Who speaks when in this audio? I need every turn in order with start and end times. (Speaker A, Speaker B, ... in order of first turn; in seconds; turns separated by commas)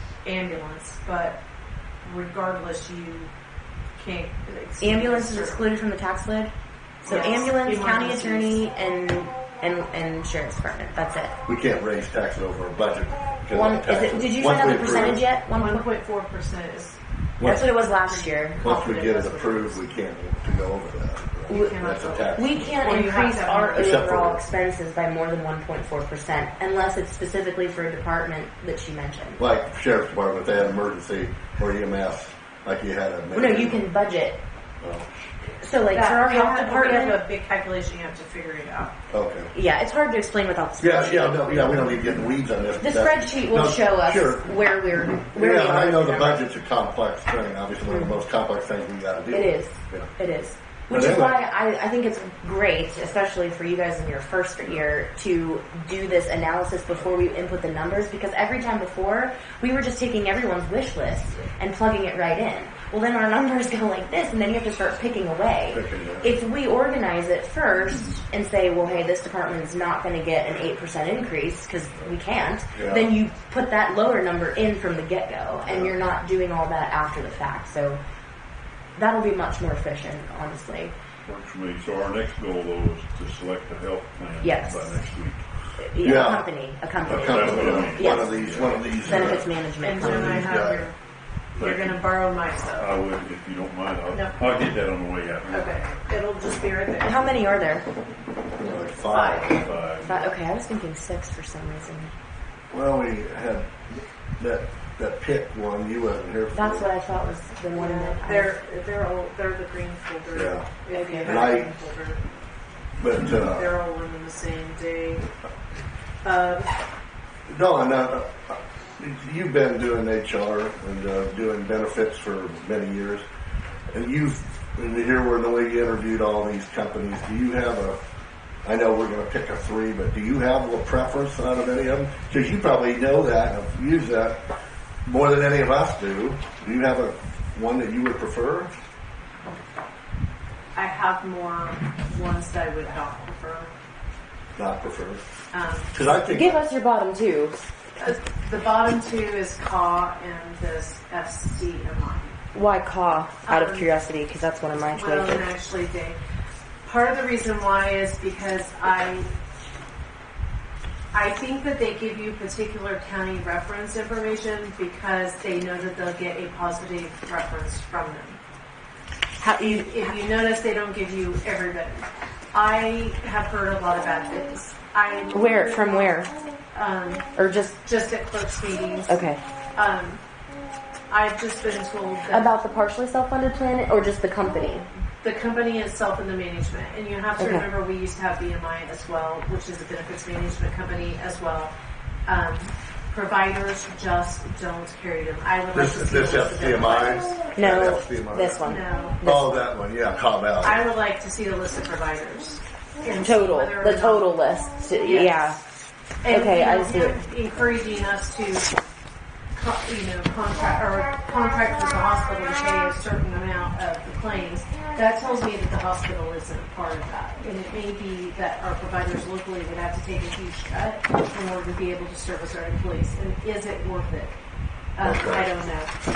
Speaker A: 0.2-1.4, Speaker A: 2.0-3.3, Speaker A: 4.0-5.7, Speaker B: 4.8-6.5, Speaker B: 7.0-11.4, Speaker A: 7.0-8.6, Speaker C: 11.4-15.2, Speaker B: 13.5-15.8, Speaker A: 15.5-17.0, Speaker C: 17.4-17.7, Speaker B: 17.4-18.6, Speaker A: 17.6-19.8, Speaker C: 18.6-22.7, Speaker A: 21.5-24.0, Speaker B: 22.3-29.4, Speaker C: 23.7-24.4, Speaker C: 29.4-33.9, Speaker B: 33.3-34.4, Speaker C: 34.8-35.1, Speaker B: 35.6-37.2, Speaker A: 35.9-38.9, Speaker C: 39.1-39.5, Speaker B: 39.5-41.8, Speaker C: 40.8-44.6, Speaker B: 42.8-46.4, Speaker C: 45.1-50.1, Speaker B: 47.9-48.2, Speaker B: 49.3-78.0, Speaker C: 50.9-51.4, Speaker C: 65.7-66.3, Speaker C: 72.7-73.1, Speaker C: 75.7-75.9, Speaker B: 79.0-80.9, Speaker D: 81.2-85.4, Speaker B: 84.4-84.9, Speaker B: 85.8-88.4, Speaker C: 86.0-86.4, Speaker D: 87.0-89.4, Speaker C: 87.0-90.8, Speaker B: 89.0-90.4, Speaker A: 89.8-90.9, Speaker A: 91.5-92.9, Speaker D: 91.6-92.0, Speaker D: 92.7-95.9, Speaker A: 94.1-94.4, Speaker A: 95.5-97.5, Speaker B: 97.0-97.8, Speaker C: 98.6-99.6, Speaker A: 99.1-99.6, Speaker D: 99.5-100.2, Speaker B: 100.0-102.1, Speaker C: 102.7-106.9, Speaker B: 106.5-108.5, Speaker A: 107.7-112.2, Speaker C: 110.3-110.7, Speaker B: 110.9-111.5, Speaker C: 111.2-111.7, Speaker C: 113.0-113.7, Speaker A: 113.2-115.3, Speaker A: 116.2-116.7, Speaker C: 117.5-123.2, Speaker C: 123.9-128.0, Speaker C: 128.6-134.4, Speaker C: 135.1-138.7, Speaker A: 140.7-143.7, Speaker C: 144.6-145.2, Speaker A: 145.5-145.9, Speaker C: 145.9-146.6, Speaker B: 146.2-147.6, Speaker A: 148.0-152.4, Speaker B: 152.5-155.5, Speaker A: 153.4-153.9, Speaker A: 154.9-156.2, Speaker A: 156.8-159.3, Speaker A: 161.1-168.4, Speaker B: 169.4-169.9, Speaker A: 169.5-177.3, Speaker B: 175.3-176.3, Speaker B: 177.3-177.8, Speaker A: 177.8-179.2, Speaker B: 179.1-179.4, Speaker A: 179.7-180.2, Speaker A: 181.1-182.6, Speaker B: 182.3-184.9, Speaker A: 185.2-191.7, Speaker B: 187.4-187.8, Speaker A: 192.2-197.4, Speaker C: 195.7-198.6, Speaker B: 197.6-199.7, Speaker A: 198.6-199.2, Speaker C: 199.2-200.8, Speaker A: 200.6-204.5, Speaker B: 203.1-205.6, Speaker A: 205.0-205.6, Speaker A: 206.2-208.8, Speaker B: 206.2-207.2, Speaker A: 209.5-224.3, Speaker A: 224.9-225.9, Speaker C: 225.0-225.5